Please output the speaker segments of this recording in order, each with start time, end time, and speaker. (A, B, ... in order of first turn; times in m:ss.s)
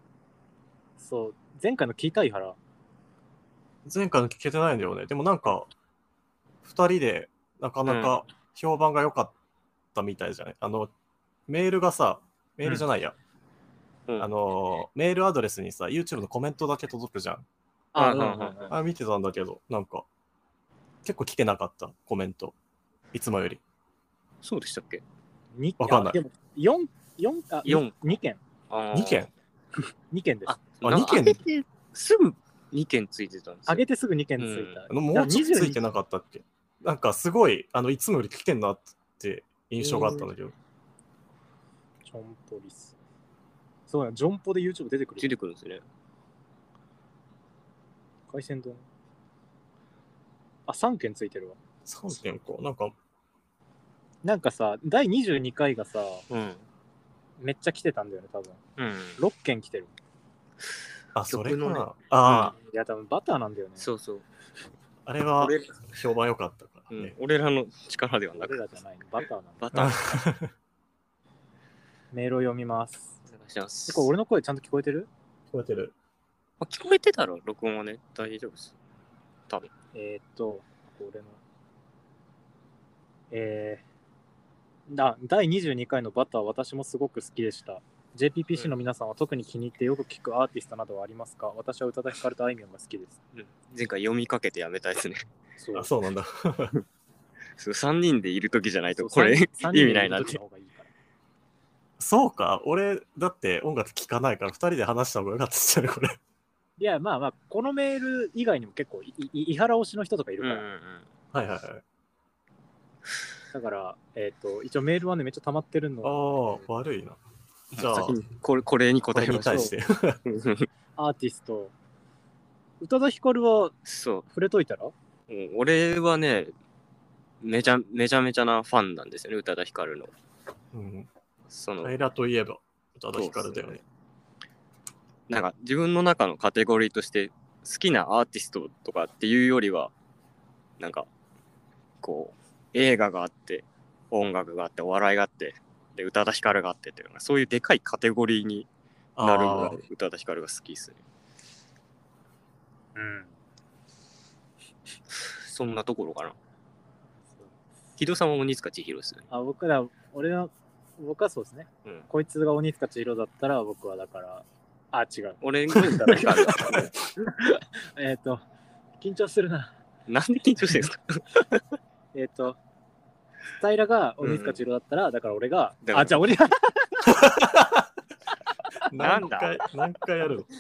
0:01.0-0:02.6 A
0:03.9-0:05.7 B
0:06.6-0:09.3 B
0:07.9-0:08.2 C
0:09.9-0:10.9 B
0:11.5-0:13.2 B
0:14.2-0:17.5 B
0:17.9-0:18.8 A
0:18.0-0:18.7 C
0:18.7-0:20.0 B
0:21.0-0:22.6 B
0:23.1-0:23.6 B
0:24.4-0:25.0 C
0:25.6-0:28.4 A
0:25.8-0:26.2 B
0:27.6-0:28.2 C
0:28.7-0:29.3 C
0:28.9-0:29.3 B
0:30.1-0:30.6 A
0:30.5-0:33.8 C
0:30.8-0:31.4 B
0:33.7-0:35.8 A
0:34.4-0:34.8 C
0:34.9-0:40.6 B
0:42.1-0:43.0 A
0:43.9-0:45.3 A
0:45.2-0:45.8 C
0:48.3-0:48.8 A
0:50.7-0:51.6 A
0:51.9-0:53.0 B
0:54.2-0:56.2 A
0:56.3-0:56.6 C
0:57.4-0:58.6 A
0:58.8-0:59.2 C
0:59.2-0:59.9 A
1:01.2-1:02.6 B
1:01.3-1:02.5 C
1:02.3-1:03.8 A
1:03.8-1:04.2 C
1:05.1-1:07.2 B
1:05.4-1:05.9 C
1:06.9-1:08.6 C
1:08.4-1:09.7 A
1:09.6-1:10.2 C
1:09.7-1:10.5 B
1:12.1-1:13.2 A
1:13.3-1:14.1 C
1:13.9-1:15.1 A
1:15.5-1:15.9 B
1:16.6-1:18.7 C
1:19.9-1:21.4 A
1:23.3-1:23.8 A
1:24.9-1:33.2 A
1:33.3-1:35.2 C
1:35.6-1:35.9 A
1:35.8-1:36.8 B
1:37.6-1:40.4 C
1:38.9-1:40.9 A
1:42.0-1:46.2 B
1:46.8-1:50.7 A
1:50.4-1:51.1 C
1:51.3-1:51.8 B
1:53.5-1:56.4 A
1:56.0-1:57.2 B
1:57.7-1:59.7 C
1:57.8-1:58.2 B
1:59.1-2:00.2 B
1:59.4-1:59.7 A
2:00.3-2:00.7 C
2:01.0-2:01.7 A
2:02.8-2:03.8 A
2:03.9-2:04.3 C
2:04.3-2:04.9 A
2:05.3-2:06.5 C
2:07.4-2:10.1 C
2:10.7-2:11.1 B
2:11.5-2:11.9 C
2:11.8-2:13.8 B
2:13.1-2:13.8 C
2:15.3-2:19.9 C
2:20.8-2:21.1 C
2:22.0-2:28.7 C
2:29.2-2:29.8 B
2:29.2-2:31.0 C
2:33.0-2:33.3 A
2:35.2-2:36.4 C
2:38.0-2:39.3 C
2:39.3-2:48.4 A
2:45.4-2:47.0 C
2:49.0-2:49.7 A
2:50.1-2:51.6 C
2:52.1-2:52.6 A
2:53.6-2:57.1 A
2:54.2-2:54.6 C
2:55.8-2:56.3 C
2:57.1-2:57.9 B
2:58.9-3:00.5 B
2:59.0-2:59.6 C